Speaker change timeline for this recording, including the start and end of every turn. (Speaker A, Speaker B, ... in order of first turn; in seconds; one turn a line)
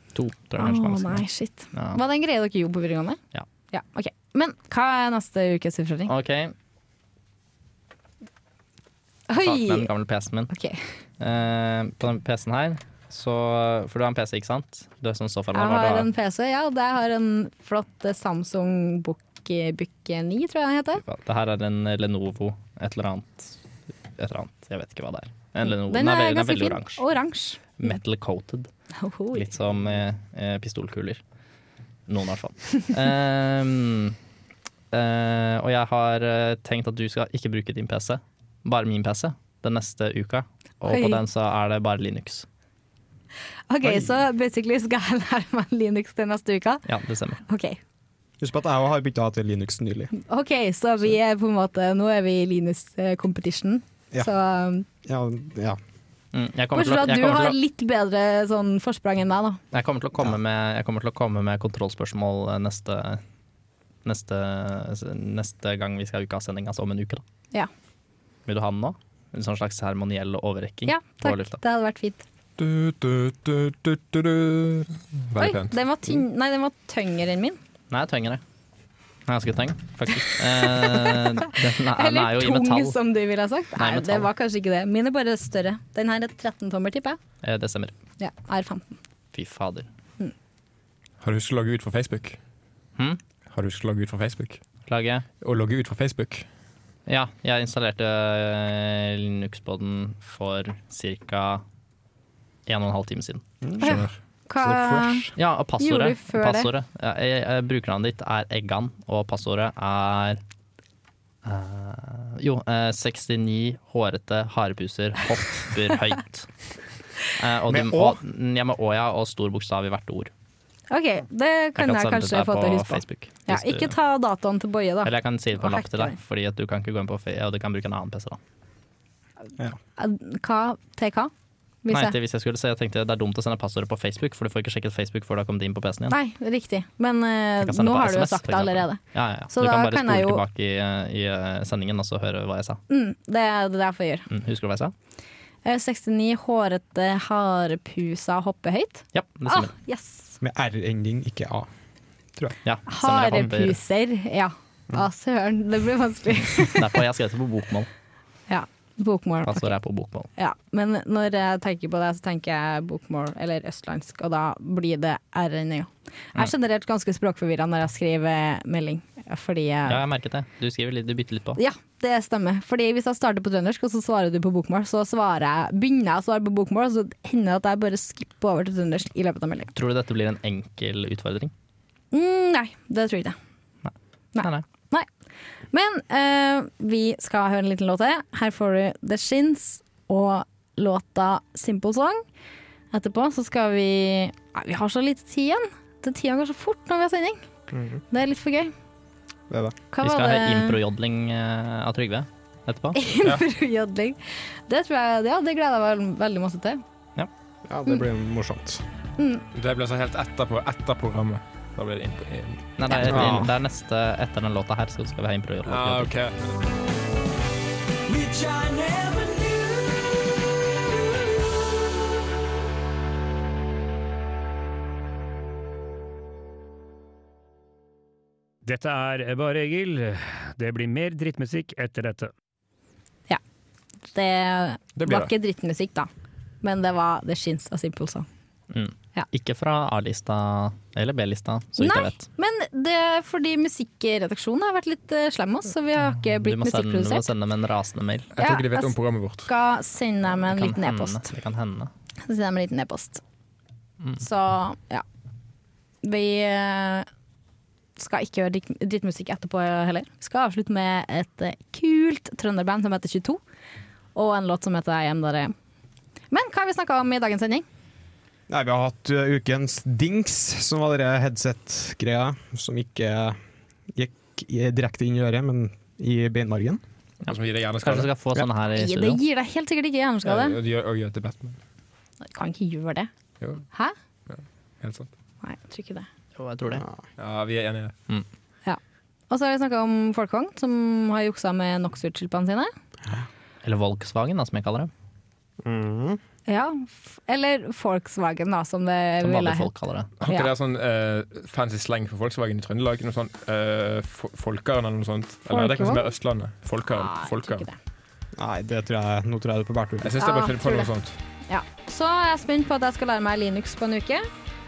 Speaker A: 0.1-2.0
Speaker B: 0.6-3.2
Speaker B: 3.7-6.1
Speaker A: 6.1-6.5
Speaker B: 9.3-9.9
Speaker A: 9.4-10.5
Speaker B: 10.5-10.8
Speaker A: 11.2-16.1
Speaker B: 15.5-21.0
Speaker A: 21.0-23.6
Speaker A: 24.2-27.0
Speaker B: 25.7-28.0
Speaker A: 27.8-28.7
Speaker B: 29.0-29.4
Speaker A: 29.3-31.2
Speaker A: 32.1-34.2
Speaker A: 34.9-42.5
Speaker B: 40.9-41.2
Speaker B: 43.7-46.8
Speaker C: 43.8-44.2
Speaker A: 46.9-47.4
Speaker B: 47.5-47.8
Speaker C: 48.4-50.1
Speaker B: 50.2-54.9
Speaker C: 55.0-55.8
Speaker A: 56.3-57.6
Speaker B: 56.7-59.6
Speaker A: 59.7-63.2
Speaker A: 64.0-67.2
Speaker A: 68.5-71.6
Speaker B: 70.9-72.2
Speaker D: 72.6-75.8
Speaker B: 75.4-77.6
Speaker A: 77.9-78.4
Speaker A: 79.3-83.0
Speaker B: 80.6-87.2
Speaker A: 83.8-84.3
Speaker A: 87.4-87.9
Speaker B: 88.2-89.0
Speaker A: 89.3-89.9
Speaker D: 91.2-92.4
Speaker D: 93.5-94.6
Speaker A: 94.9-95.2
Speaker D: 95.4-96.5
Speaker A: 97.1-101.6
Speaker A: 102.7-103.4
Speaker C: 103.6-104.1
Speaker D: 103.8-104.1
Speaker B: 103.8-106.7
Speaker C: 104.6-105.1
Speaker A: 105.4-110.4
Speaker A: 111.5-116.5
Speaker A: 117.4-120.3
Speaker C: 117.7-118.2
Speaker B: 120.9-126.2
Speaker A: 121.8-123.9
Speaker A: 125.0-128.4
Speaker B: 130.0-131.3
Speaker B: 131.8-132.2
Speaker A: 131.9-136.2
Speaker B: 136.1-139.0
Speaker A: 137.6-142.8
Speaker B: 139.5-140.4
Speaker B: 142.9-144.3
Speaker A: 144.3-144.9
Speaker B: 145.7-150.4
Speaker A: 149.1-149.7
Speaker C: 150.4-151.7
Speaker A: 152.6-153.8
Speaker B: 152.9-157.0
Speaker A: 156.6-157.9
Speaker B: 158.5-159.7
Speaker A: 159.5-160.3
Speaker B: 160.4-170.0
Speaker A: 169.9-171.6
Speaker B: 171.6-179.7
Speaker A: 179.8-181.5
Speaker B: 182.1-183.4
Speaker A: 183.8-184.7
Speaker B: 184.3-185.1
Speaker B: 185.7-192.2
Speaker B: 192.9-197.4
Speaker C: 197.7-198.0
Speaker B: 198.1-198.7
Speaker C: 199.5-199.8
Speaker B: 199.9-200.8
Speaker A: 200.0-203.0
Speaker B: 202.9-206.8
Speaker C: 207.7-208.8
Speaker B: 209.2-209.4
Speaker D: 209.6-213.4
Speaker A: 212.8-216.1
Speaker B: 212.9-213.1
Speaker C: 213.1-213.5
Speaker D: 215.7-216.6
Speaker E: 228.7-232.3
Speaker B: 234.1-236.1
Speaker D: 235.0-235.3
Speaker B: 236.6-238.3
Speaker A: 238.7-242.2
Speaker B: 241.8-247.3
Speaker A: 246.4-248.3
Speaker D: 248.3-249.5
Speaker B: 248.4-248.9
Speaker B: 249.5-251.3
Speaker A: 250.4-251.9
Speaker B: 252.2-253.2
Speaker B: 254.2-255.1
Speaker B: 256.0-257.1
Speaker B: 258.0-263.4
Speaker B: 264.1-265.5
Speaker B: 266.3-267.6
Speaker C: 268.5-273.4
Speaker C: 273.9-276.8
Speaker A: 277.2-279.2
Speaker D: 277.3-278.1
Speaker B: 278.7-280.6
Speaker D: 280.2-281.6
Speaker B: 282.2-283.1
Speaker D: 284.3-285.1
Speaker B: 285.4-286.1
Speaker A: 286.4-286.9
Speaker C: 286.7-287.0
Speaker D: 287.2-288.0
Speaker B: 288.6-292.7
Speaker A: 293.6-294.9
Speaker C: 295.6-296.2
Speaker B: 296.5-299.7
Speaker A: 299.2-300.1
Speaker D: 300.2-307.7
Speaker B: 300.2-300.5
Speaker B: 305.5-306.1
Speaker B: 306.9-307.8
Speaker C: 308.4-310.2
Speaker D: 310.0-311.2
Speaker B: 310.2-310.9
Speaker B: 311.5-314.3